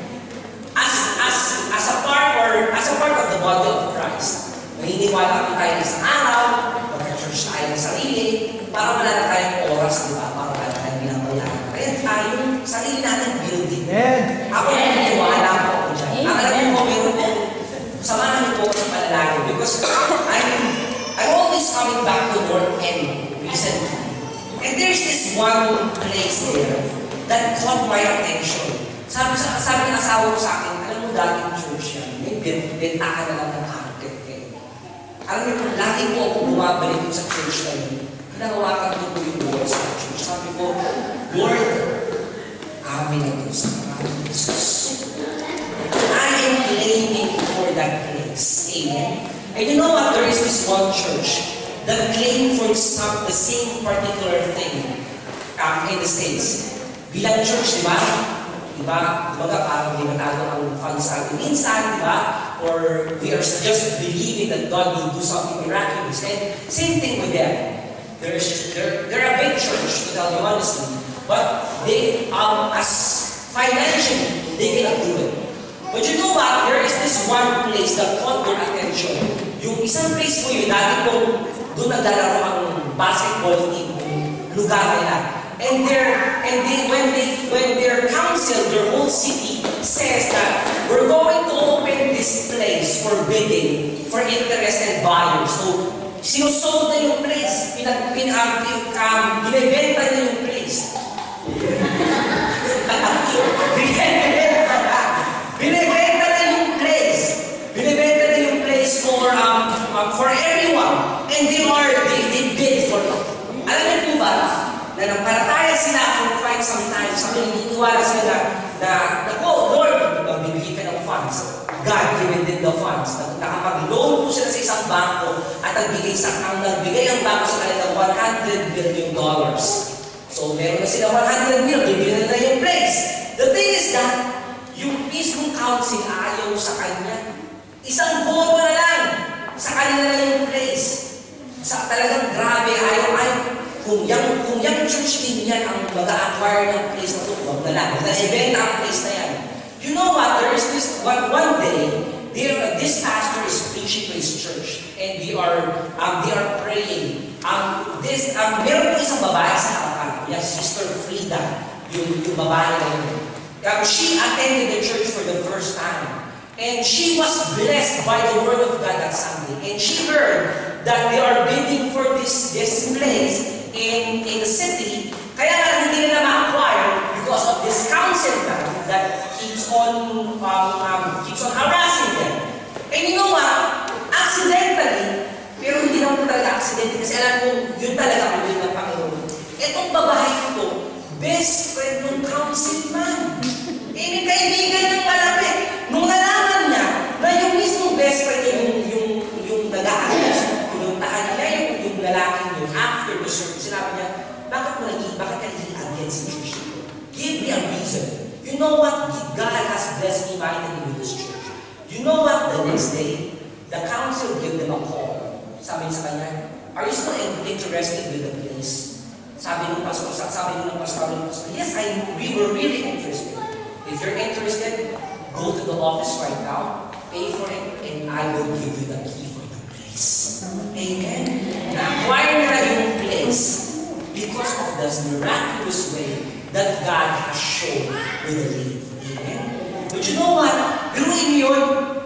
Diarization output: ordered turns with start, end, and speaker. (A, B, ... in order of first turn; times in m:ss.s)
0:00.7-0:34.6 A
0:35.3-0:41.9 A
0:42.8-0:45.1 A
0:46.0-0:54.9 A
0:55.6-0:58.2 A
0:58.7-1:15.4 A
1:15.9-1:40.9 A
1:42.5-2:17.2 A
2:17.8-2:21.0 A
2:21.6-3:13.4 A
3:13.9-4:01.7 A